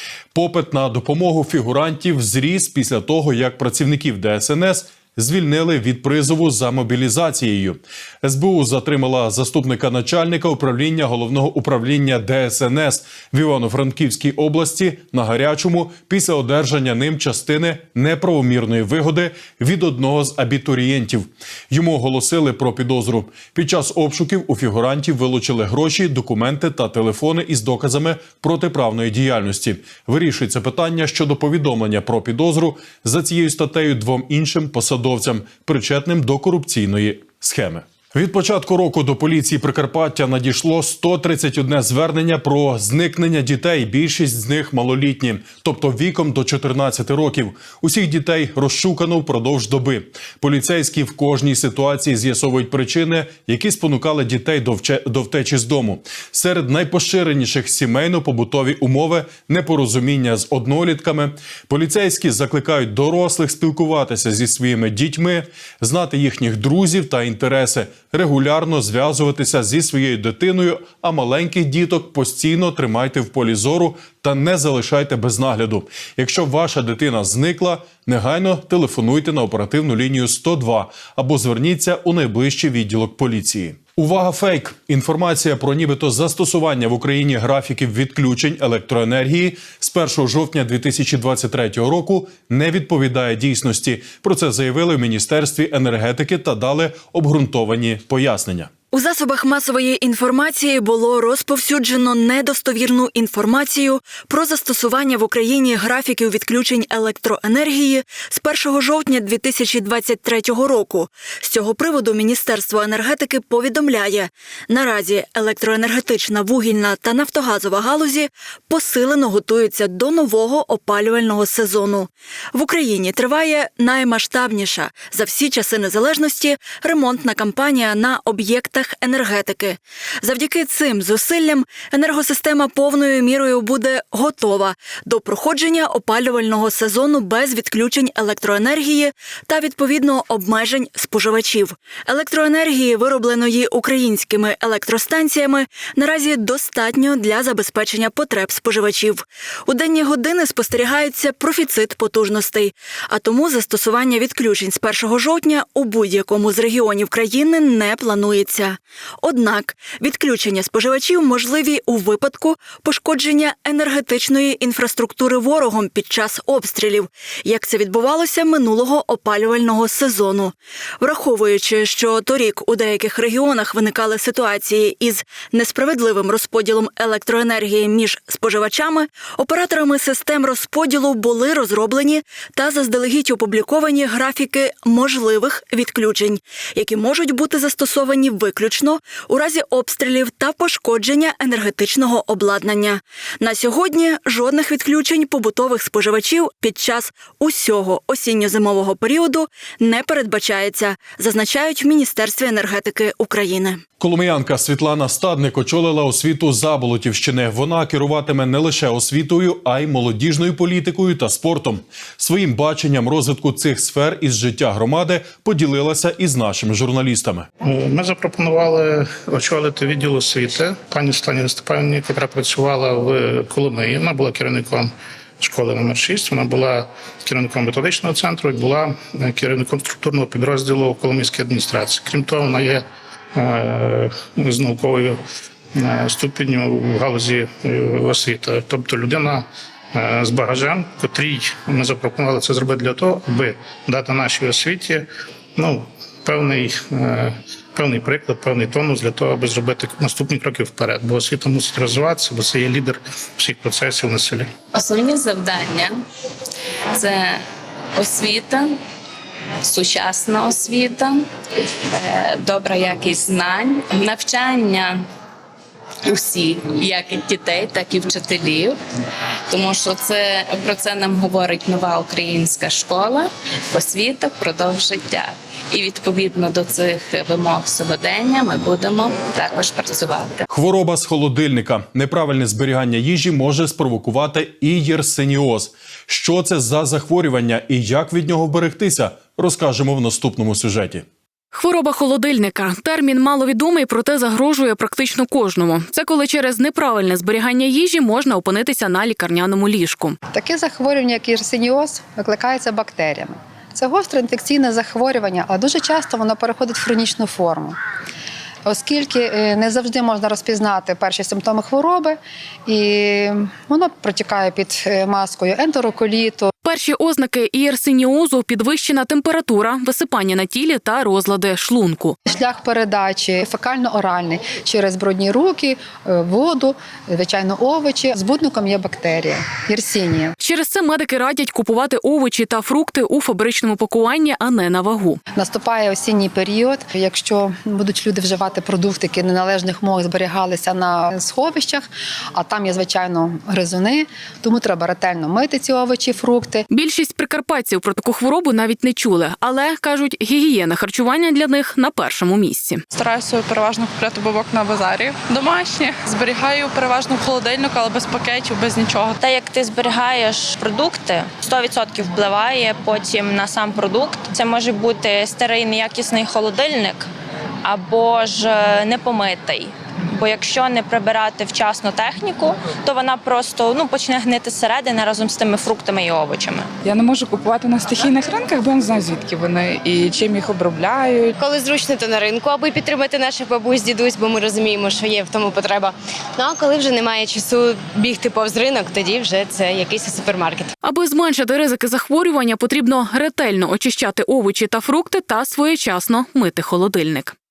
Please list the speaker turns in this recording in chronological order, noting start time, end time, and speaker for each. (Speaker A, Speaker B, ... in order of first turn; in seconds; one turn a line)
Speaker A: 0.3-98.7
Speaker B: 98.9-203.8
Speaker A: 204.0-217.5
Speaker C: 217.6-232.8
Speaker C: 233.3-235.2
Speaker C: 235.7-254.5
Speaker D: 254.9-255.9
Speaker D: 258.0-258.7
Speaker D: 259.7-261.2
Speaker D: 262.1-264.9
Speaker D: 266.1-268.7
Speaker D: 269.5-272.9
Speaker D: 279.2-279.7
Speaker A: 280.5-291.0
Speaker E: 291.5-300.1
Speaker F: 300.3-307.8
Speaker F: 308.6-316.5
Speaker E: 316.6-322.1
Speaker F: 322.3-330.4
Speaker E: 330.4-335.2
Speaker F: 335.4-346.7
Speaker E: 346.7-352.8
Speaker G: 352.9-359.2
Speaker H: 359.2-367.1
Speaker H: 367.6-376.7
Speaker I: 376.8-381.4
Speaker J: 381.4-390.7
Speaker E: 390.8-397.4